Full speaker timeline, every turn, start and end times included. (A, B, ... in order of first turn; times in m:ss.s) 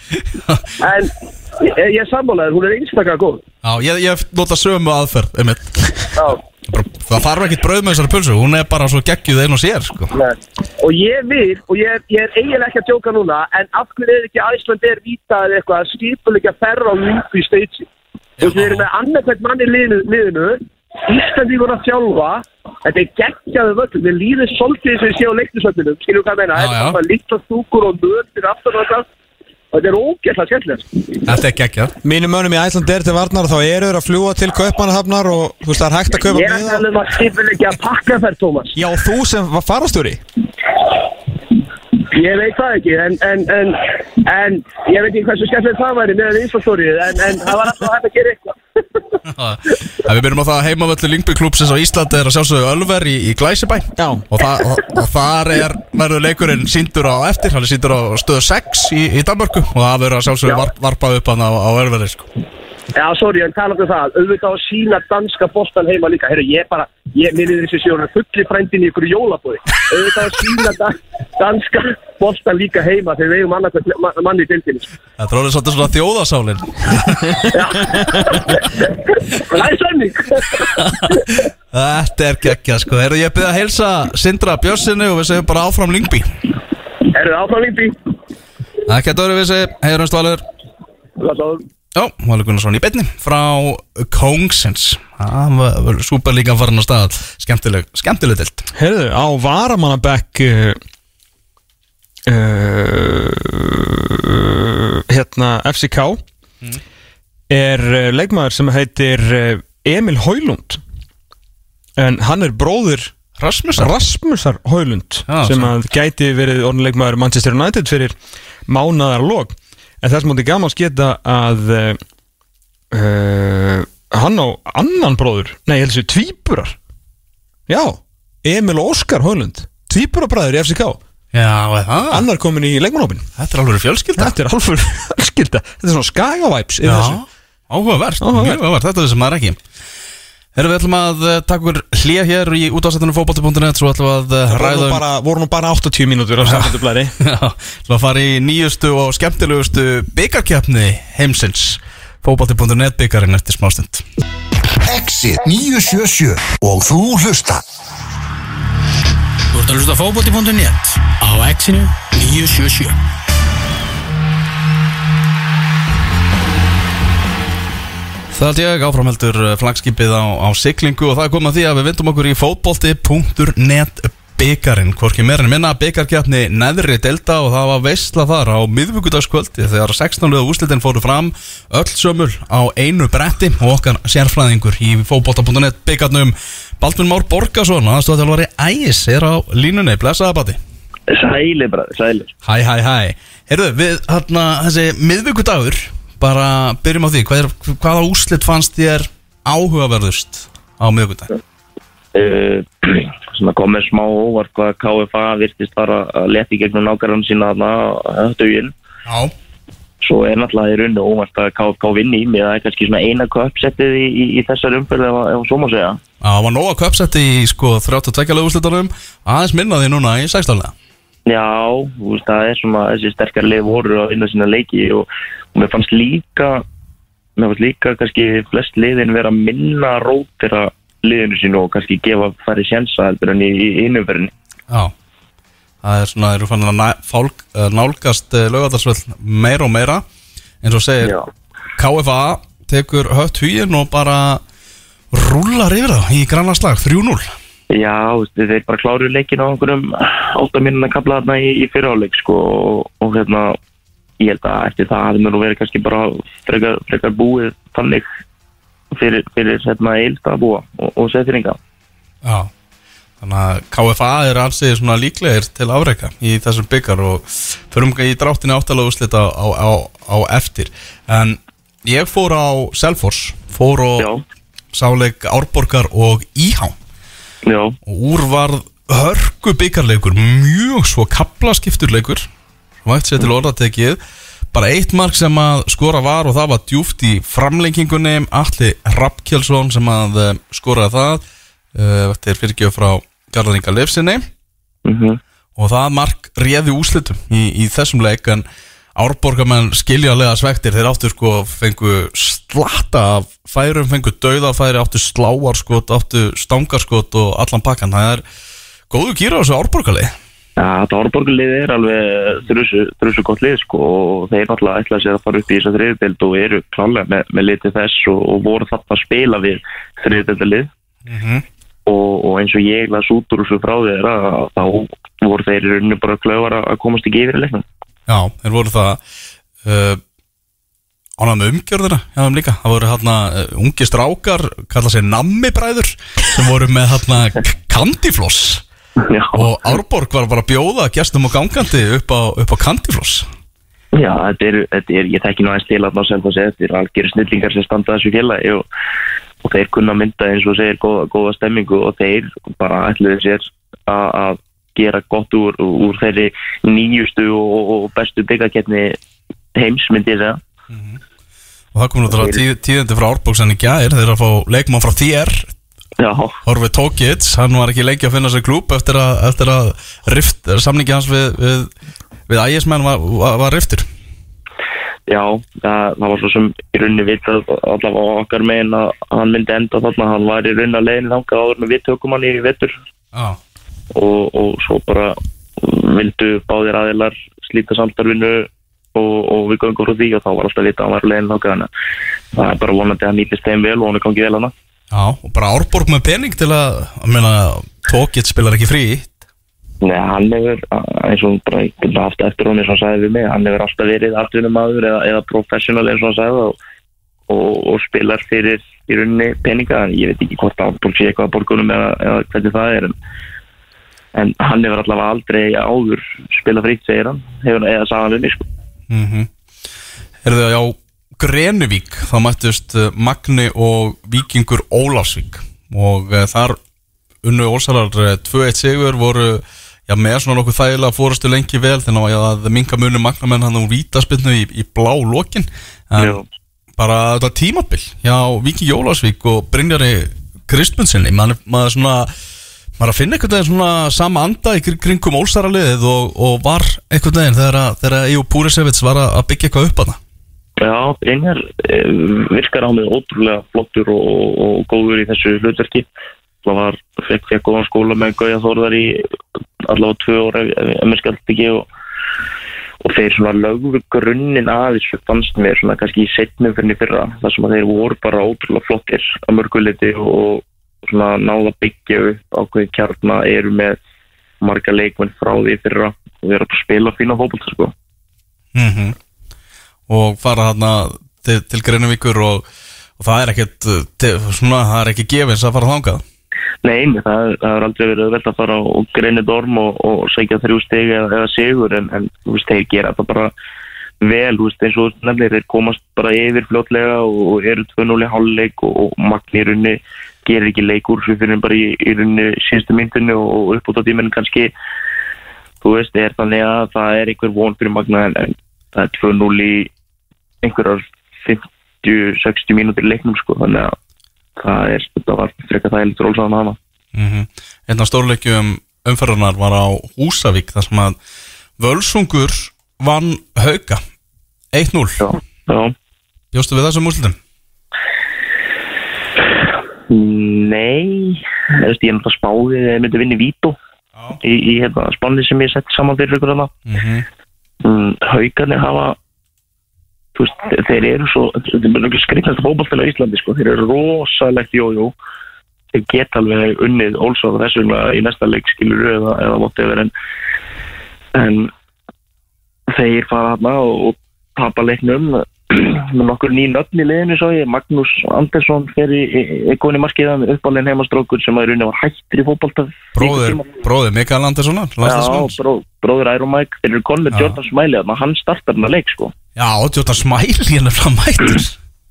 0:00.3-0:00.7 A
0:00.8-0:03.4 B
0:03.6-0:06.1 A
0:06.2-0:06.4 B
0:06.6-0:10.2 A
0:10.1-0:17.9 B
0:18.4-0:18.8 A
0:18.4-0:29.1 B
0:26.6-0:27.0 A
0:29.7-0:31.0 B
0:31.2-0:31.9 A
0:32.0-0:36.9 C
0:36.3-0:38.8 B
0:38.7-0:40.2 C
0:42.0-0:49.2 B
0:49.3-1:02.3 A
0:54.0-0:54.2 C
1:02.9-1:14.9 B
1:15.2-1:17.5 A
1:17.5-1:21.3 B
1:18.3-1:18.6 A
1:20.8-1:26.3 A
1:27.1-1:28.0 B
1:28.8-1:30.4 A
1:31.2-1:31.6 B
1:31.9-1:38.7 A
1:38.7-1:40.8 C
1:42.3-1:46.2 C
1:47.5-1:50.8 C
1:52.0-1:53.1 C
1:53.4-1:53.9 A
1:53.8-1:58.1 C
1:55.3-1:55.7 A
1:58.7-2:02.0 C
2:02.9-2:06.8 C
2:07.7-2:11.0 C
2:11.3-2:12.2 A
2:12.1-2:13.2 C
2:13.4-2:14.3 A
2:14.2-2:17.2 C
2:16.8-2:19.6 A
2:18.2-2:18.6 C
2:20.6-2:25.0 A
2:24.5-2:27.1 C
2:26.4-2:34.0 A
2:34.8-2:37.6 D
2:39.5-2:42.9 E
2:48.3-3:10.6 A
3:11.1-3:12.3 F
3:12.4-3:21.3 A
3:22.1-3:28.7 F
3:29.1-3:29.3 A
3:30.0-3:36.0 F
3:36.2-3:40.7 A
3:41.2-3:46.6 F
3:47.4-3:54.3 F
3:55.8-4:00.0 A
4:00.6-4:01.1 A
4:01.8-4:04.4 A
4:05.1-4:07.4 A
4:07.7-4:13.6 F
4:14.2-4:18.1 F
4:18.9-4:21.6 F
4:22.2-4:22.5 A
4:23.2-4:34.1 A
4:34.7-4:36.8 A
4:37.4-4:37.8 F
4:37.8-4:42.3 A
4:42.8-4:44.0 A
4:44.5-4:51.2 A
4:51.7-4:54.3 A
4:54.8-4:55.2 F
4:55.6-4:58.4 A
4:59.0-5:08.2 A
5:08.9-5:10.1 A
5:10.6-5:20.7 F
5:21.0-5:21.4 A
5:21.8-5:27.6 F
5:28.1-5:29.0 A
5:29.6-5:30.0 A
5:31.2-5:38.6 A
5:39.0-5:39.4 F
5:39.3-5:43.3 A
5:43.9-5:48.6 F
5:49.4-5:59.0 F
5:59.5-6:00.4 F
6:00.7-6:01.0 A
6:01.7-6:05.5 A
6:02.1-6:02.4 F
6:06.0-6:06.4 F
6:06.4-6:11.7 A
6:12.3-6:13.8 A
6:15.1-6:22.7 F
6:23.9-6:31.7 F
6:32.3-6:34.5 F
6:34.9-6:39.1 A
6:39.8-6:46.6 F
6:47.3-6:52.9 F
6:54.1-6:58.4 F
6:58.9-6:59.3 A
7:00.2-7:06.6 A
7:07.2-7:16.2 A
7:16.0-7:16.2 F
7:16.8-7:22.1 A
7:22.8-7:30.0 A
7:30.6-7:35.9 F
7:36.4-7:39.0 F
7:39.6-7:41.6 F
7:42.8-7:53.8 F
7:54.4-7:57.7 F
7:58.5-7:59.0 A
7:59.9-8:02.4 A
8:03.0-8:06.0 A
8:06.6-8:13.3 F
8:14.0-8:24.5 F
8:25.6-8:29.7 F
8:30.4-8:33.7 F
8:34.4-8:36.6 F
8:36.9-8:41.0 A
8:41.6-8:43.8 A
8:44.5-8:45.0 A
8:45.0-8:45.7 F
8:46.3-8:47.2 A
8:49.9-8:53.6 F
8:54.2-8:56.5 F
8:56.7-8:57.0 A
8:57.6-8:59.0 F
9:00.1-9:04.9 F
9:05.7-9:09.9 F
9:11.1-9:11.5 F
9:12.7-9:23.4 F
9:22.9-9:25.4 A
9:24.8-9:29.1 F
9:27.1-9:27.4 A
9:29.4-9:31.6 A